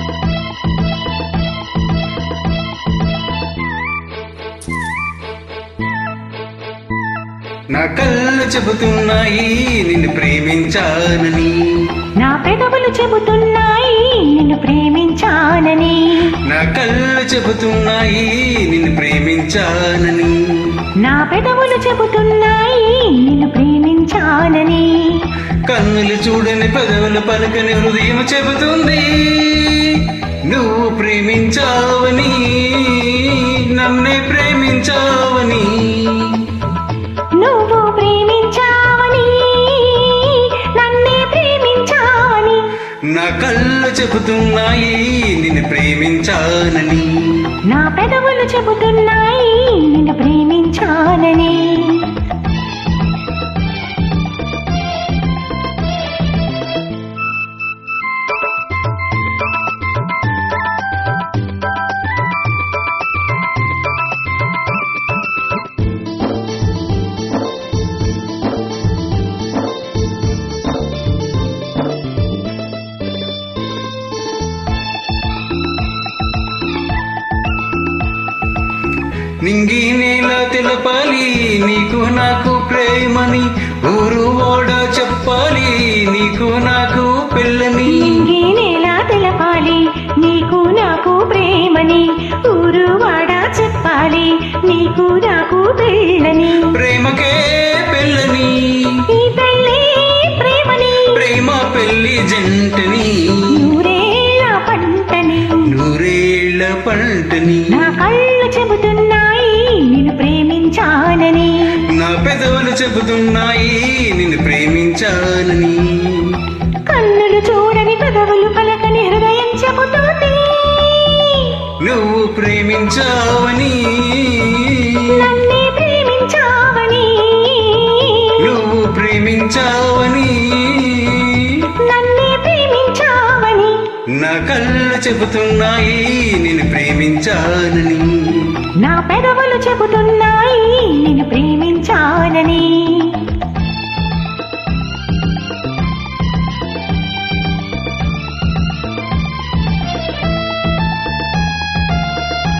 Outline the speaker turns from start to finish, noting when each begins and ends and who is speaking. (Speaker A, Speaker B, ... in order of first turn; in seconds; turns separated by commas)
Speaker A: 7.7-12.0, Speaker B: 12.2-16.3, Speaker A: 16.4-20.7, Speaker B: 21.0-25.2, Speaker A: 25.7-36.5, Speaker B: 37.4-42.6, Speaker A: 43.1-47.5, Speaker B: 47.7-52.1, Speaker A: 79.4-88.2, Speaker B: 87.9-96.7, Speaker A: 96.7-99.0, Speaker B: 99.1-101.2, Speaker A: 101.0-103.5, Speaker B: 103.5-105.7, Speaker A: 105.6-107.9, Speaker B: 107.7-111.8, Speaker A: 111.9-116.4, Speaker B: 116.9-121.6, Speaker A: 121.8-125.3, Speaker B: 125.1-128.4, Speaker A: 128.4-131.7, Speaker B: 131.9-133.8, Speaker A: 134.2-138.6, Speaker B: 138.8-143.3